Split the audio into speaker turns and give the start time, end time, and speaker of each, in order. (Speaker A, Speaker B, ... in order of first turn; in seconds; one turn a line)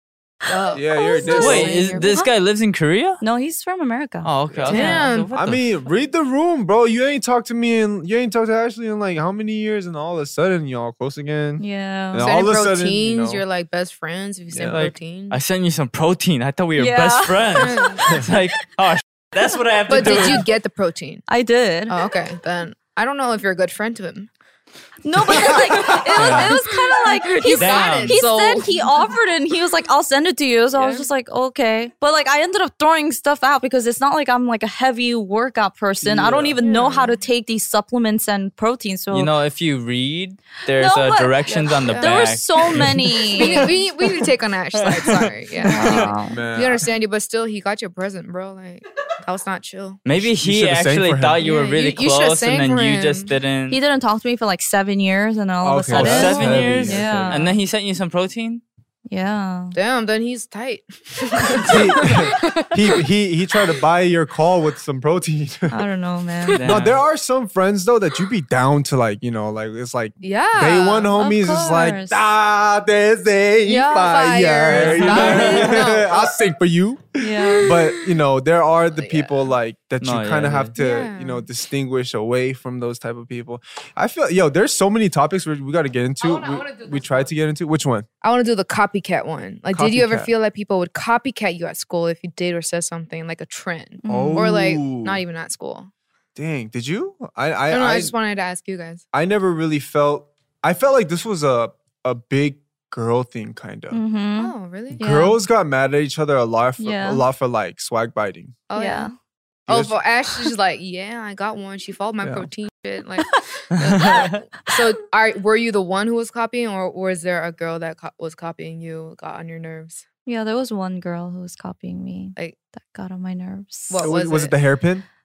Speaker A: 0.5-2.1
Speaker B: 0.7-1.8
Speaker C: 1.0-2.3
Speaker D: 1.4-3.2
Speaker C: 3.2-5.1
Speaker D: 4.2-5.7
Speaker A: 4.7-5.3
Speaker B: 5.3-13.4
Speaker C: 11.6-12.3
Speaker A: 12.2-15.4
Speaker B: 14.5-14.8
Speaker D: 14.7-20.4
Speaker C: 16.8-18.2
Speaker A: 17.6-18.1
Speaker A: 19.9-21.2
Speaker C: 20.0-20.4
Speaker C: 21.3-21.9
Speaker A: 21.9-24.3
Speaker C: 25.0-39.3
Speaker A: 25.3-29.1
Speaker D: 26.1-26.5
Speaker D: 27.5-28.2
Speaker A: 30.8-31.1
Speaker B: 36.0-36.6
Speaker A: 36.6-37.2
Speaker D: 39.1-44.2
Speaker C: 40.7-43.8
Speaker A: 41.5-42.4
Speaker A: 43.2-50.0
Speaker D: 44.8-46.1
Speaker C: 45.6-46.4
Speaker B: 46.2-46.8
Speaker D: 50.0-53.8
Speaker B: 50.2-51.4
Speaker A: 51.4-53.3
Speaker C: 53.7-57.6
Speaker B: 55.6-57.4
Speaker D: 55.9-58.6
Speaker C: 59.1-59.8
Speaker A: 59.8-63.0
Speaker B: 61.7-65.8
Speaker C: 65.7-66.7
Speaker D: 66.5-67.0
Speaker B: 66.6-88.1
Speaker A: 70.2-71.1
Speaker C: 71.1-72.2
Speaker A: 73.7-76.3
Speaker D: 74.7-75.9
Speaker C: 77.2-77.8
Speaker A: 77.4-78.0
Speaker A: 79.0-79.5
Speaker D: 80.0-80.8
Speaker A: 80.8-81.5
Speaker A: 86.2-87.3
Speaker A: 88.2-95.9
Speaker B: 89.7-90.3
Speaker C: 94.0-94.6
Speaker B: 94.1-95.2
Speaker B: 96.3-98.1
Speaker A: 97.7-99.0
Speaker B: 99.1-104.0
Speaker C: 103.9-105.4
Speaker A: 104.4-105.0
Speaker B: 104.9-108.6
Speaker C: 106.8-107.2
Speaker A: 108.7-109.1
Speaker C: 108.8-109.1
Speaker A: 109.7-120.0
Speaker B: 109.7-110.0
Speaker B: 112.2-112.5
Speaker D: 113.8-114.3
Speaker C: 120.3-124.1
Speaker A: 123.9-124.6
Speaker B: 124.0-125.1